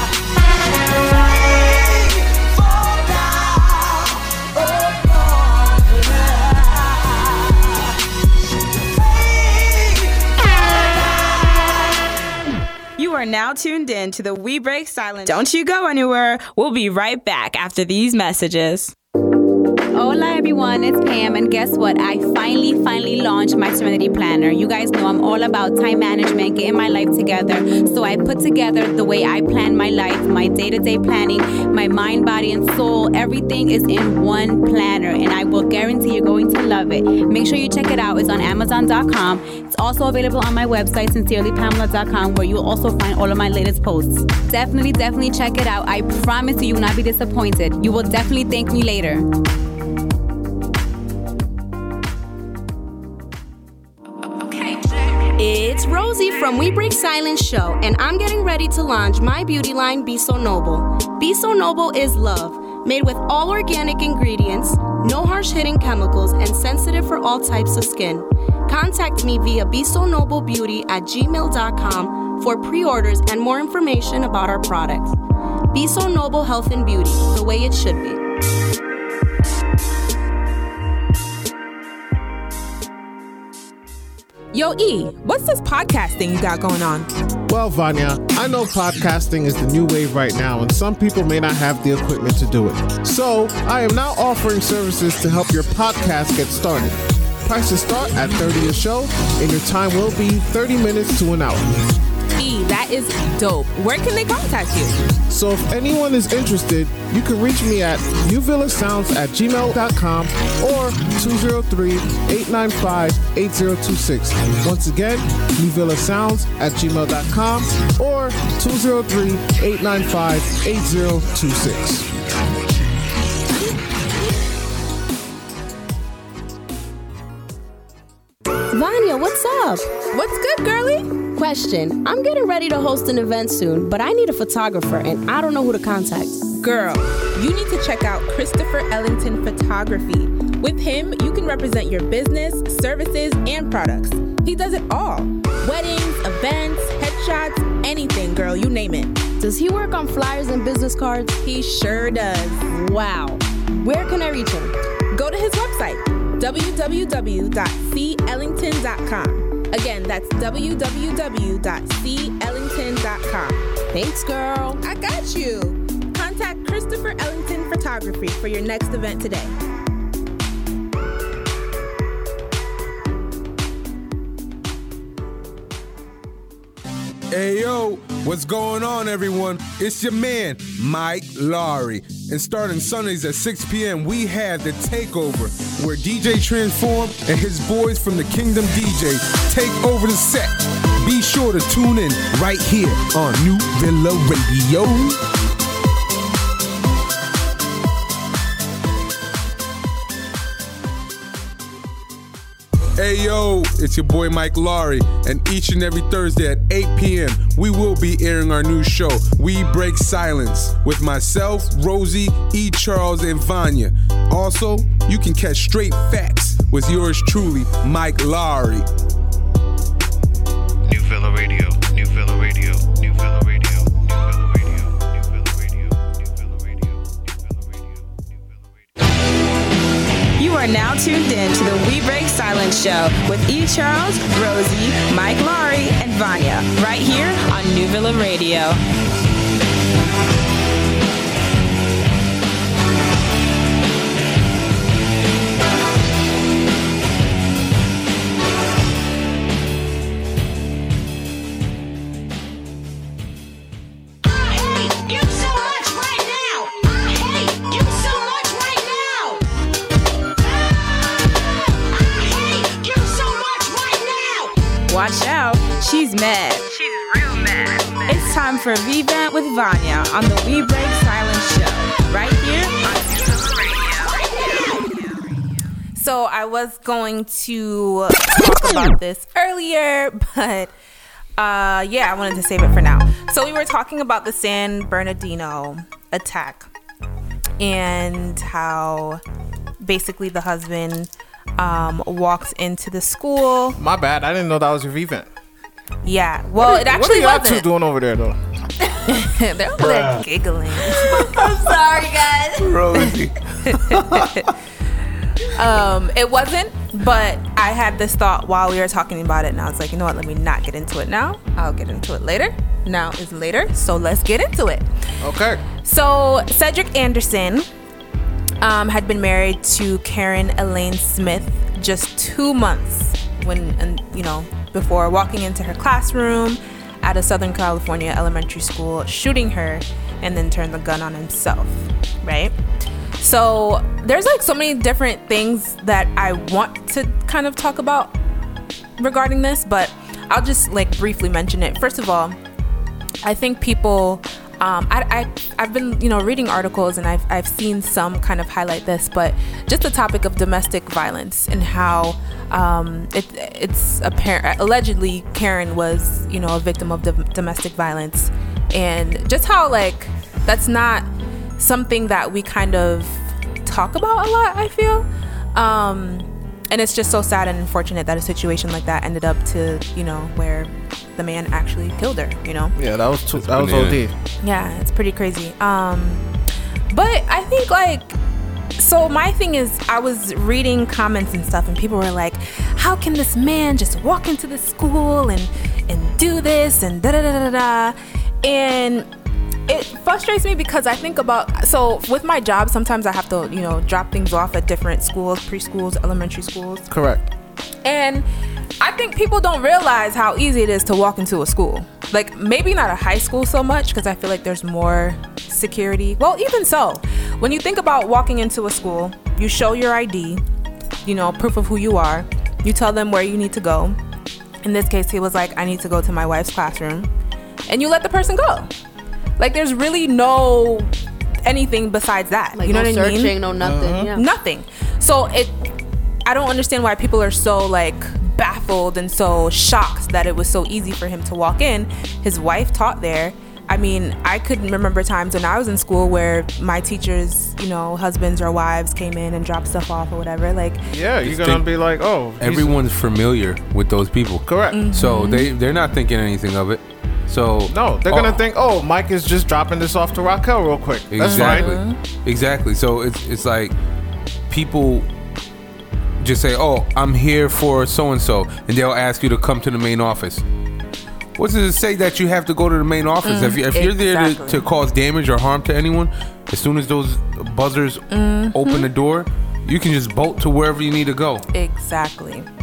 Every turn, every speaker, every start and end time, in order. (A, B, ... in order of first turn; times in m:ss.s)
0:13.0-0:18.9 A
0:19.9-0:49.3 B
0:55.4-1:15.2 C
1:15.7-1:18.2 C
1:24.5-1:27.1 D
1:27.5-1:41.8 E
1:42.4-1:45.0 D
1:45.3-2:02.1 E
2:08.7-2:09.9 C
2:10.1-2:11.1 D
2:11.3-2:16.4 C
2:16.6-2:29.2 D
2:29.4-2:31.4 C
2:31.4-2:32.7 D
2:32.7-2:34.7 C
2:35.1-2:43.6 D
2:43.9-2:44.8 C
2:44.8-2:49.6 D
2:57.3-3:15.2 F
3:23.0-3:38.9 F
3:40.9-3:42.9 E
3:50.4-3:58.8 A
4:24.9-4:34.4 A
4:36.0-4:40.7 D
4:41.4-4:46.7 D
4:47.6-4:49.2 D
4:49.8-4:53.8 D
4:53.8-4:55.3 E
4:56.0-4:57.7 D
4:56.6-4:58.4 E
4:59.1-5:01.3 D
5:01.0-5:03.1 C
5:02.6-5:04.5 F
5:03.7-5:04.4 D
5:05.5-5:14.9 D
5:15.2-5:15.6 E
5:15.8-5:17.7 D
5:18.6-5:32.6 D
5:33.2-5:38.1 D
5:39.0-5:42.4 D
5:43.2-6:01.1 D
6:01.6-6:12.7 D
6:12.8-6:14.1 E
6:13.3-6:14.0 F
6:14.4-6:16.2 D
6:16.9-6:18.2 D
6:18.8-6:29.1 D
6:29.7-6:36.9 D
6:36.9-6:37.3 E
6:37.8-6:38.3 D
6:38.8-6:50.4 D
6:51.0-6:54.0 D
6:54.6-6:57.1 D
6:57.7-6:58.7 D
6:59.4-7:00.9 D
7:01.4-7:03.4 D
7:02.6-7:04.2 C
7:03.6-7:04.1 E
7:04.1-7:05.7 D
7:06.3-7:20.8 D
7:20.9-7:22.8 E
7:21.2-7:21.7 F
7:22.4-7:28.4 F
7:24.4-7:24.8 E
7:24.7-7:25.5 D
7:27.7-7:31.7 E
7:31.1-7:33.8 F
7:31.2-7:32.0 D
7:34.5-7:35.1 F
7:36.2-7:40.4 F
7:41.4-7:51.5 F
7:43.2-7:44.6 D
7:48.1-7:48.9 D
7:51.5-7:52.5 D